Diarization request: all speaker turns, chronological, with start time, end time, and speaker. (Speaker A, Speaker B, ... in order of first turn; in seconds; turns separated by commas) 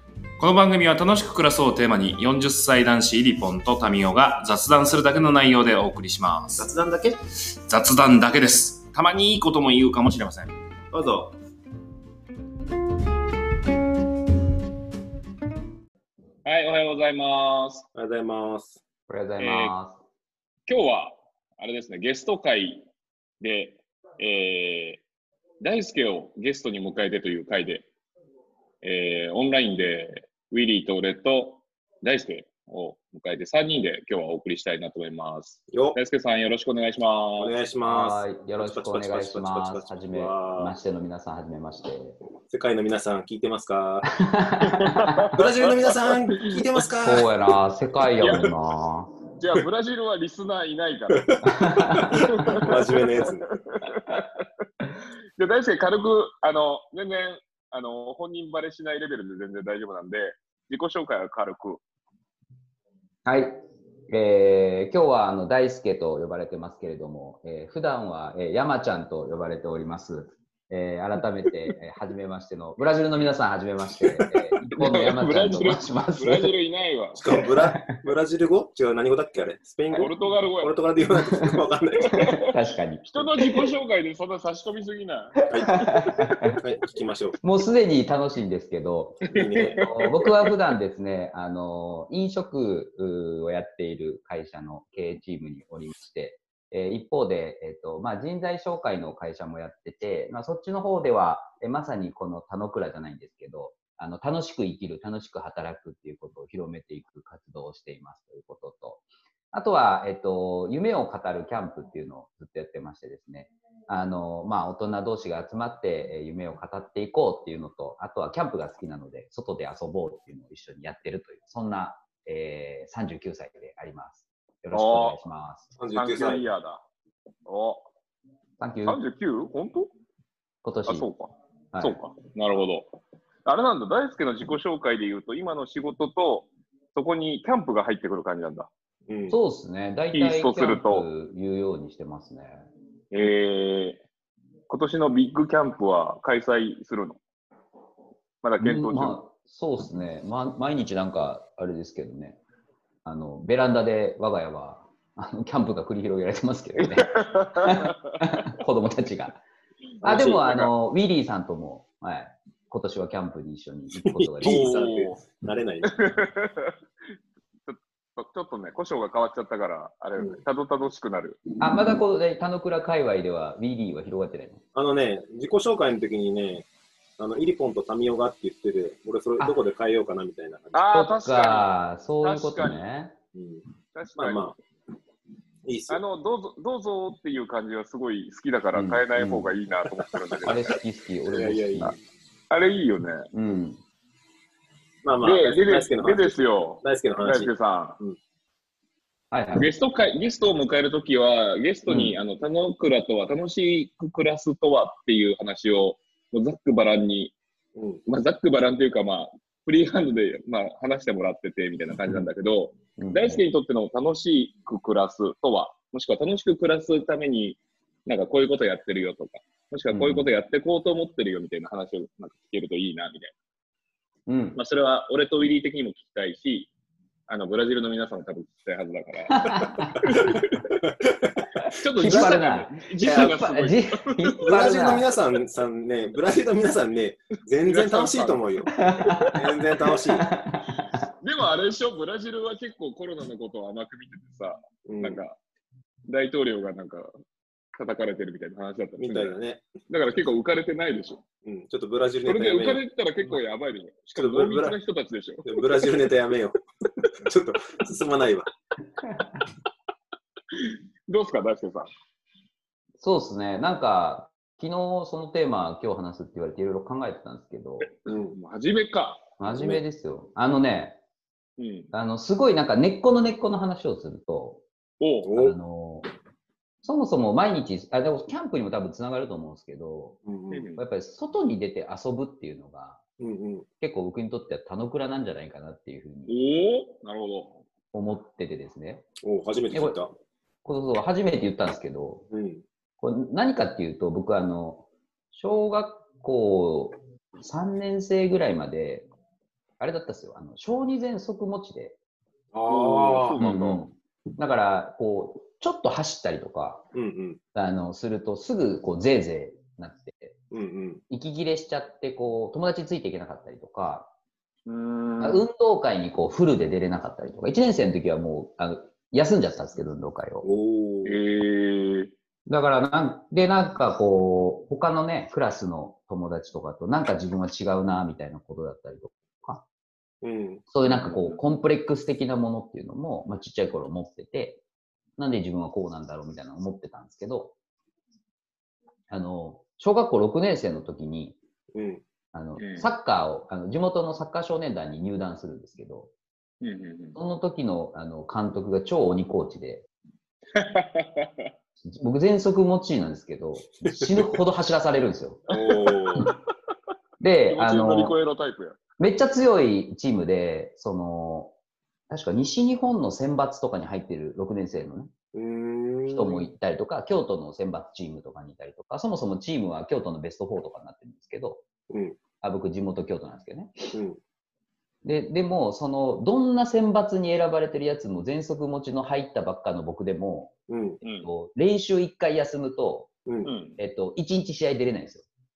Speaker A: 0.4-6.7, Speaker B: 6.6-7.1, Speaker A: 7.7-10.5, Speaker B: 10.9-11.3, Speaker C: 16.4-17.8, Speaker B: 17.9-18.8, Speaker D: 19.1-20.0, Speaker C: 19.4-19.7, Speaker C: 20.7-22.9, Speaker C: 23.4-25.0, Speaker C: 25.6-27.9, Speaker C: 28.8-37.5, Speaker B: 35.7-36.0, Speaker B: 37.4-40.8, Speaker D: 37.8-42.2, Speaker B: 42.5-44.1, Speaker D: 44.2-45.1, Speaker C: 44.6-46.6, Speaker B: 45.3-47.3, Speaker D: 47.0-49.2, Speaker C: 48.2-48.5, Speaker C: 49.4-51.3, Speaker D: 51.4-52.2, Speaker C: 51.9-54.3, Speaker B: 51.9-53.5, Speaker C: 55.4-61.8, Speaker D: 63.2-76.5, Speaker C: 74.7-77.2, Speaker B: 77.1-82.3, Speaker C: 79.9-80.8, Speaker C: 82.0-82.3, Speaker D: 82.3-83.1, Speaker C: 83.0-86.1, Speaker D: 85.4-86.5, Speaker B: 85.5-85.7, Speaker B: 86.5-87.4, Speaker D: 87.4-125.7, Speaker B: 89.3-89.9, Speaker C: 89.6-90.2, Speaker C: 124.7-125.2, Speaker B: 125.8-126.4, Speaker C: 125.9-126.8, Speaker C: 127.5-127.8, Speaker D: 128.6-129.0, Speaker C: 128.8-129.9, Speaker D: 130.6-131.1, Speaker C: 130.9-132.9, Speaker D: 131.7-132.0, Speaker C: 133.4-138.7, Speaker B: 139.1-139.4, Speaker D: 139.3-142.7, Speaker C: 140.1-141.1, Speaker C: 143.1-144.0, Speaker C: 144.7-147.2, Speaker C: 148.4-149.2, Speaker D: 148.6-152.4, Speaker D: 153.0-159.4, Speaker C: 156.9-158.2, Speaker B: 160.0-160.6, Speaker D: 160.0-164.8, Speaker B: 163.9-166.0, Speaker C: 164.4-165.2, Speaker C: 165.9-166.7, Speaker C: 167.7-171.4, Speaker D: 171.6-174.6, Speaker B: 174.7-176.7, Speaker B: 177.2-180.9, Speaker C: 180.7-181.7, Speaker D: 180.9-183.2, Speaker C: 182.2-182.8, Speaker B: 183.3-183.6, Speaker C: 183.9-184.6, Speaker B: 184.2-184.5, Speaker B: 185.6-186.0, Speaker C: 185.9-190.7, Speaker D: 188.7-189.5, Speaker D: 190.4-191.9, Speaker B: 191.3-192.0, Speaker C: 192.5-193.3, Speaker D: 193.3-193.8, Speaker B: 195.0-198.2, Speaker C: 195.2-198.0, Speaker D: 199.3-199.7, Speaker C: 199.5-207.3, Speaker D: 201.9-202.2, Speaker B: 207.8-208.0, Speaker C: 208.1-223.3, Speaker D: 213.0-213.4, Speaker D: 219.9-220.3, Speaker D: 224.3-224.6, Speaker C: 224.6-226.7, Speaker C: 227.3-230.5, Speaker D: 229.4-229.9, Speaker C: 231.7-234.3, Speaker D: 231.9-235.1, Speaker B: 232.0-232.4, Speaker B: 234.4-240.3, Speaker C: 237.6-238.4, Speaker D: 238.8-239.3, Speaker D: 240.2-241.1, Speaker C: 241.2-245.3, Speaker B: 244.8-245.2, Speaker C: 246.1-247.1, Speaker C: 247.7-249.3, Speaker B: 249.0-249.6, Speaker C: 249.9-251.2, Speaker B: 251.4-252.8, Speaker C: 252.2-255.8, Speaker B: 254.1-254.8, Speaker B: 255.4-258.5, Speaker C: 260.5-261.9, Speaker D: 263.0-267.9, Speaker C: 268.0-269.2, Speaker B: 268.1-268.4, Speaker D: 269.4-271.0, Speaker B: 269.4-269.8, Speaker C: 271.6-271.9, Speaker D: 271.9-274.6, Speaker C: 275.0-275.3, Speaker B: 275.2-275.6, Speaker D: 275.4-276.1, Speaker D: 276.8-280.2, Speaker B: 280.2-280.7, Speaker C: 280.5-280.8, Speaker D: 280.8-283.0, Speaker B: 283.2-283.7, Speaker D: 283.8-286.3, Speaker C: 286.3-287.6, Speaker D: 287.9-289.1, Speaker B: 289.2-290.1, Speaker D: 289.7-290.0, Speaker D: 290.6-292.2, Speaker B: 292.3-292.6, Speaker D: 293.0-299.1, Speaker D: 299.8-302.0, Speaker B: 302.5-303.5, Speaker C: 302.6-303.9, Speaker D: 303.4-306.9, Speaker B: 306.9-307.4, Speaker D: 307.5-310.4, Speaker B: 310.5-311.0, Speaker D: 311.1-314.1, Speaker C: 314.6-315.4, Speaker D: 315.2-320.4, Speaker B: 320.4-321.2, Speaker C: 321.0-322.1, Speaker D: 322.5-329.6, Speaker B: 330.2-331.3, Speaker D: 330.7-334.6, Speaker D: 335.2-337.5, Speaker D: 339.1-341.4, Speaker B: 341.7-342.0, Speaker D: 342.3-346.1, Speaker C: 342.6-342.9, Speaker C: 346.6-347.1, Speaker D: 347.1-349.9, Speaker C: 350.5-351.5, Speaker D: 351.8-355.4, Speaker B: 353.8-354.3, Speaker B: 355.5-356.2, Speaker C: 355.5-356.4, Speaker D: 357.2-358.1, Speaker C: 357.5-358.8, Speaker D: 359.0-361.5, Speaker D: 362.1-365.1, Speaker B: 365.3-366.5, Speaker D: 366.1-371.6, Speaker B: 371.9-372.2, Speaker D: 372.4-373.9, Speaker B: 373.9-374.2, Speaker D: 375.0-380.5, Speaker B: 380.7-381.0, Speaker C: 381.0-381.3, Speaker D: 381.2-383.1, Speaker B: 383.2-383.5, Speaker C: 383.4-383.8, Speaker D: 383.8-385.3